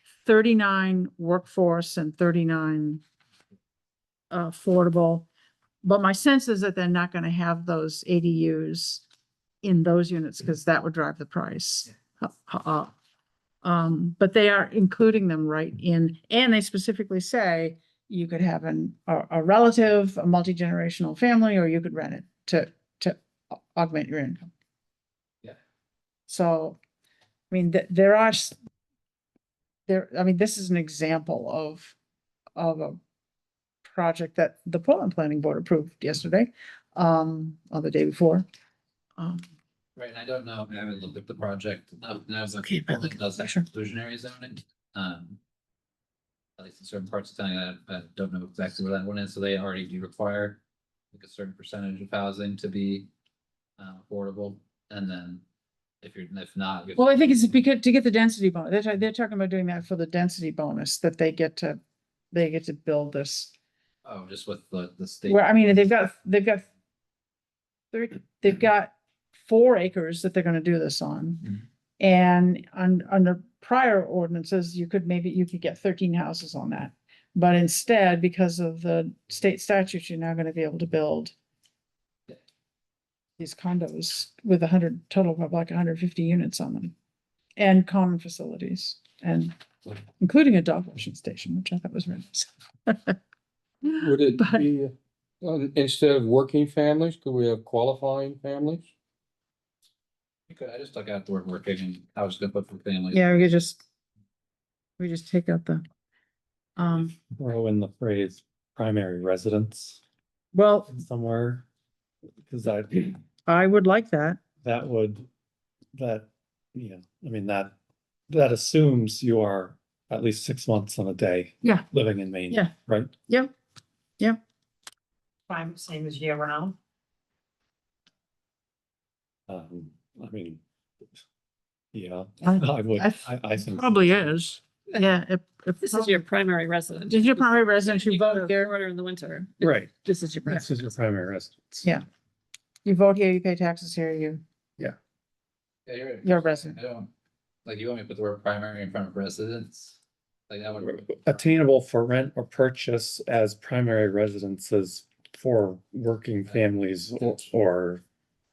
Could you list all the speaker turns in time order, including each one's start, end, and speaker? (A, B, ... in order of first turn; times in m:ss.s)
0:00.2-0:03.0 A
0:04.3-0:05.3 A
0:05.8-0:09.0 A
0:09.6-0:12.9 A
0:13.6-0:24.5 A
0:26.3-0:26.8 A
0:27.5-0:28.5 A
0:29.9-0:32.0 A
0:32.6-0:33.0 A
0:33.8-0:38.4 A
0:39.2-0:39.4 A
0:40.0-0:45.4 B
0:42.5-0:43.6 A
0:46.6-0:50.6 B
0:51.1-0:53.1 B
0:53.8-0:55.4 B
0:56.0-0:57.5 B
0:57.0-1:01.8 A
1:02.3-1:03.5 A
1:04.0-1:05.5 B
1:05.3-1:06.6 A
1:07.9-1:21.3 A
1:23.4-1:26.9 A
1:27.6-1:33.2 A
1:33.8-1:34.6 A
1:34.0-1:38.9 C
1:40.5-1:43.3 B
1:43.1-1:43.8 A
1:45.0-1:45.8 A
1:46.8-1:47.1 A
1:47.1-1:50.0 D
1:50.5-1:50.9 A
1:50.9-1:51.6 D
1:52.4-1:53.2 D
1:53.4-1:54.4 A
1:54.6-1:55.3 D
1:55.9-1:57.7 D
1:58.3-2:03.1 D
2:05.5-2:06.8 E
2:09.5-2:10.6 D
2:11.9-2:14.4 D
2:12.4-2:16.2 A
2:15.8-2:20.6 E
2:17.1-2:18.7 A
2:19.6-2:21.8 D
2:22.8-2:24.4 A
2:25.8-2:27.1 B
2:26.2-2:26.8 A
2:27.6-2:30.0 B
2:30.5-2:31.4 B
2:30.8-2:38.0 D
2:37.2-2:37.4 B